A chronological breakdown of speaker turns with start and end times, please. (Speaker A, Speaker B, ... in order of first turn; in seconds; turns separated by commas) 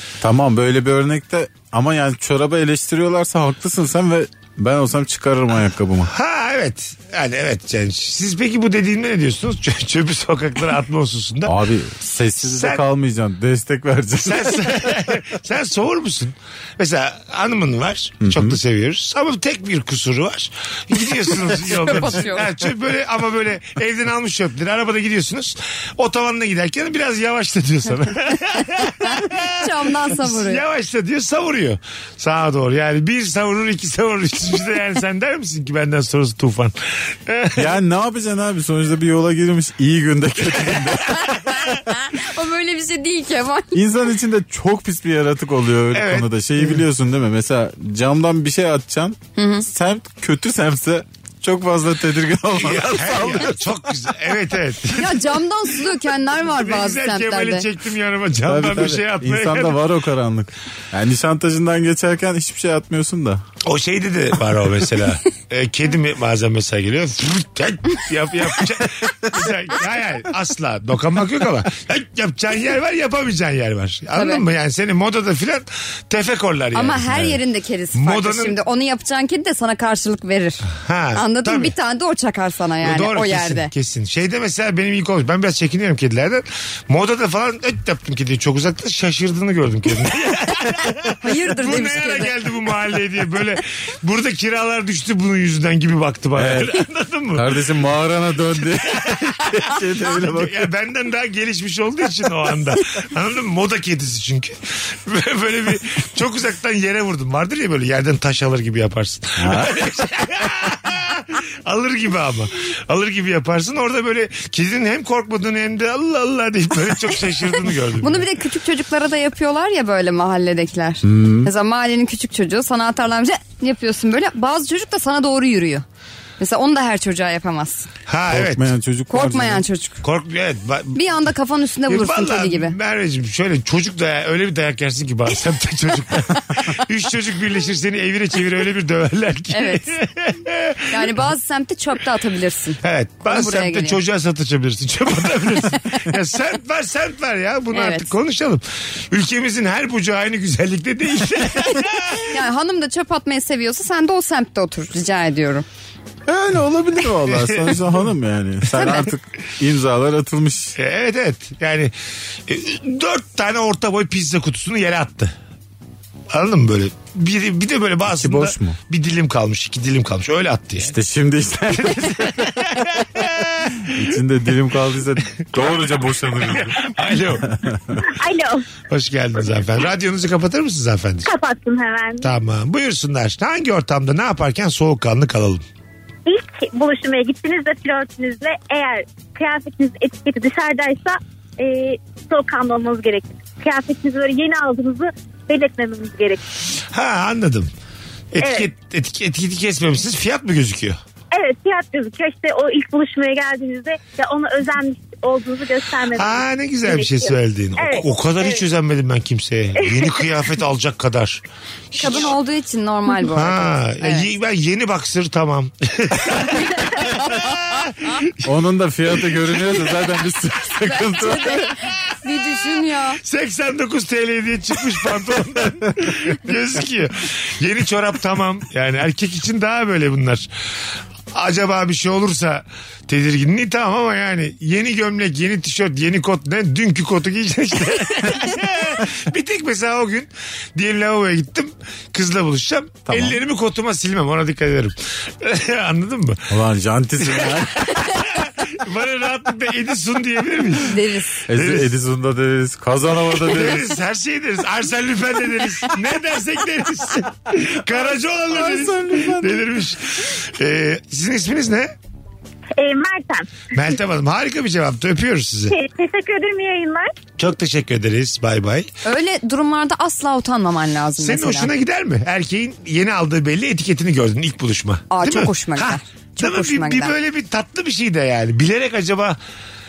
Speaker A: 0.2-6.1, Speaker B: 6.1-11.5, Speaker A: 11.4-15.0, Speaker B: 12.5-12.8, Speaker B: 14.2-29.5, Speaker A: 18.2-18.6, Speaker C: 21.4-22.5, Speaker C: 29.0-30.6, Speaker B: 30.1-37.7, Speaker A: 37.6-41.2, Speaker C: 41.5-43.8, Speaker A: 43.7-53.7, Speaker B: 45.9-46.3, Speaker C: 49.4-49.7, Speaker B: 52.6-55.3, Speaker C: 55.0-57.7, Speaker B: 56.5-59.8, Speaker A: 58.5-63.4, Speaker B: 63.6-77.4, Speaker C: 74.2-74.4, Speaker C: 76.7-83.7, Speaker B: 78.0-78.6, Speaker B: 80.7-81.7, Speaker B: 82.8-97.5, Speaker C: 91.2-92.3, Speaker A: 96.4-96.7, Speaker A: 97.3-100.7, Speaker B: 100.1-118.3, Speaker A: 109.4-109.8, Speaker C: 118.0-125.8, Speaker A: 121.0-121.5, Speaker C: 126.4-127.9, Speaker B: 128.1-128.7, Speaker A: 128.3-129.6, Speaker C: 129.1-130.0, Speaker B: 130.0-131.0, Speaker C: 130.9-132.8, Speaker B: 131.9-141.1, Speaker C: 139.5-139.9, Speaker C: 140.9-144.0, Speaker B: 142.8-152.3, Speaker C: 147.7-148.1, Speaker C: 152.3-155.7, Speaker A: 156.3-160.8, Speaker B: 157.3-157.7, Speaker C: 158.8-159.1, Speaker B: 160.8-161.9, Speaker B: 162.5-165.3, Speaker B: 166.3-171.0, Speaker A: 168.1-168.8, Speaker A: 170.8-172.8, Speaker B: 171.8-173.7, Speaker A: 173.9-178.0, Speaker B: 176.5-177.5, Speaker D: 178.0-178.6, Speaker B: 178.9-181.3, Speaker D: 181.2-182.3, Speaker B: 182.2-185.6, Speaker D: 186.3-196.4, Speaker B: 196.9-197.7, Speaker B: 198.3-201.0, Speaker D: 198.4-198.7, Speaker D: 201.3-208.7, Speaker B: 206.1-211.4, Speaker D: 209.8-210.2, Speaker B: 211.9-212.3, Speaker C: 211.9-214.3, Speaker B: 213.2-218.3, Speaker A: 218.4-221.7, Speaker C: 220.9-223.2, Speaker B: 223.2-230.5, Speaker B: 231.3-246.4, Speaker A: 243.1-243.4, Speaker A: 246.5-247.9, Speaker B: 247.2-251.9, Speaker C: 250.8-251.4, Speaker A: 251.5-254.0, Speaker B: 253.4-261.9, Speaker A: 258.5-259.7, Speaker D: 262.8-263.5, Speaker B: 263.7-265.7, Speaker D: 265.7-267.1, Speaker B: 267.4-268.9, Speaker C: 269.0-271.7, Speaker B: 271.2-279.4, Speaker C: 275.1-277.1